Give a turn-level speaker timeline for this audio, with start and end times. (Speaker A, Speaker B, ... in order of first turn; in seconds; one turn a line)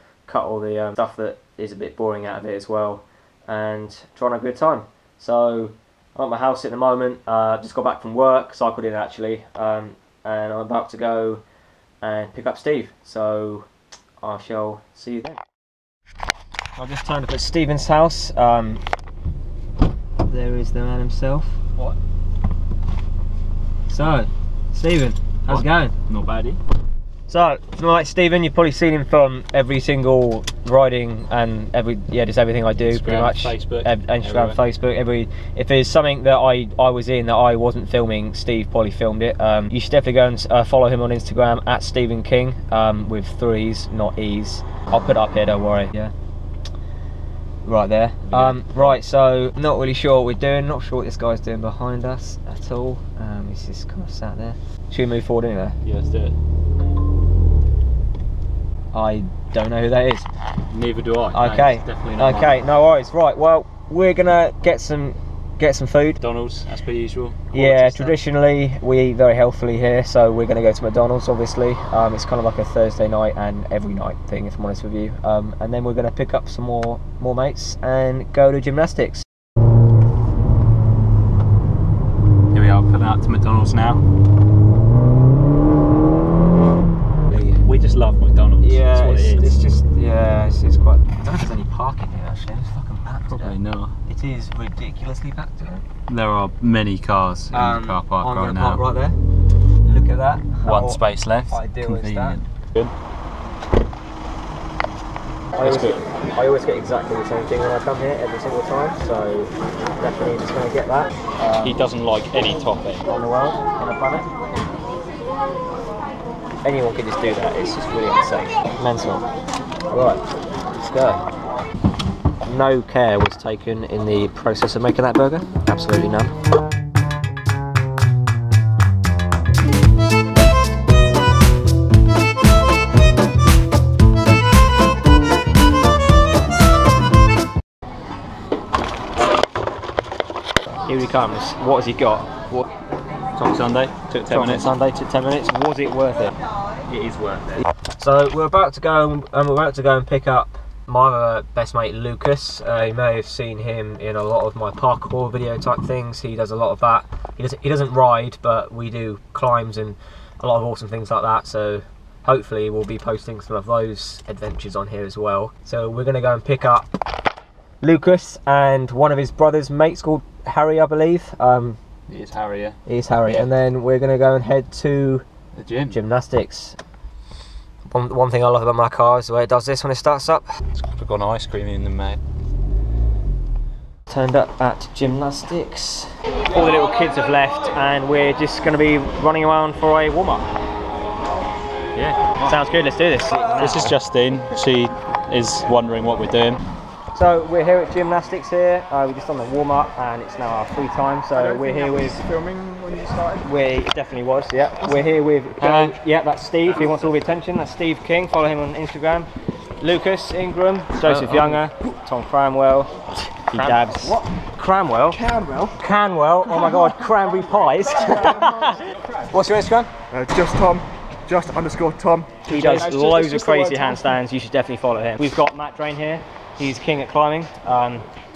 Speaker A: 0.3-11.4
Speaker A: 12.0-13.7
Speaker A: 14.2-15.4
Speaker A: 16.8-18.8
Speaker A: 20.2-21.6
Speaker A: 23.9-25.9
Speaker B: 25.5-26.6
Speaker A: 27.3-46.1
Speaker B: 32.8-34.6
Speaker A: 47.6-55.8
Speaker B: 48.3-48.9
Speaker B: 55.9-56.3
Speaker A: 58.9-60.3
Speaker B: 60.7-62.6
Speaker A: 61.3-66.2
Speaker B: 66.2-68.2
Speaker A: 67.5-79.2
Speaker B: 82.5-84.0
Speaker B: 87.3-89.5
Speaker A: 88.6-95.8
Speaker B: 93.3-93.9
Speaker B: 96.1-98.8
Speaker A: 97.5-99.2
Speaker A: 99.8-102.4
Speaker B: 100.6-102.9
Speaker B: 105.5-106.0
Speaker A: 105.6-111.8
Speaker B: 111.6-113.0
Speaker A: 113.1-114.3
Speaker A: 116.6-119.2
Speaker A: 119.9-121.2
Speaker A: 122.4-126.3
Speaker A: 140.8-142.7
Speaker B: 143.3-144.7
Speaker A: 144.3-146.3
Speaker B: 146.9-147.6
Speaker A: 148.0-166.8
Speaker A: 167.8-171.8
Speaker B: 172.1-173.5
Speaker A: 172.8-175.2
Speaker B: 175.6-176.0
Speaker A: 175.9-176.8
Speaker A: 177.9-180.5
Speaker B: 180.8-182.2
Speaker A: 184.1-190.4
Speaker B: 191.9-192.5
Speaker A: 192.4-193.9
Speaker B: 193.5-196.6
Speaker A: 197.1-202.2
Speaker C: 201.3-203.4
Speaker A: 203.4-209.3
Speaker B: 205.6-205.9
Speaker A: 209.8-212.9
Speaker B: 211.1-211.6
Speaker A: 213.5-215.2
Speaker B: 213.5-214.2
Speaker C: 215.1-215.7
Speaker A: 215.8-219.9
Speaker C: 220.1-224.2
Speaker A: 222.4-228.0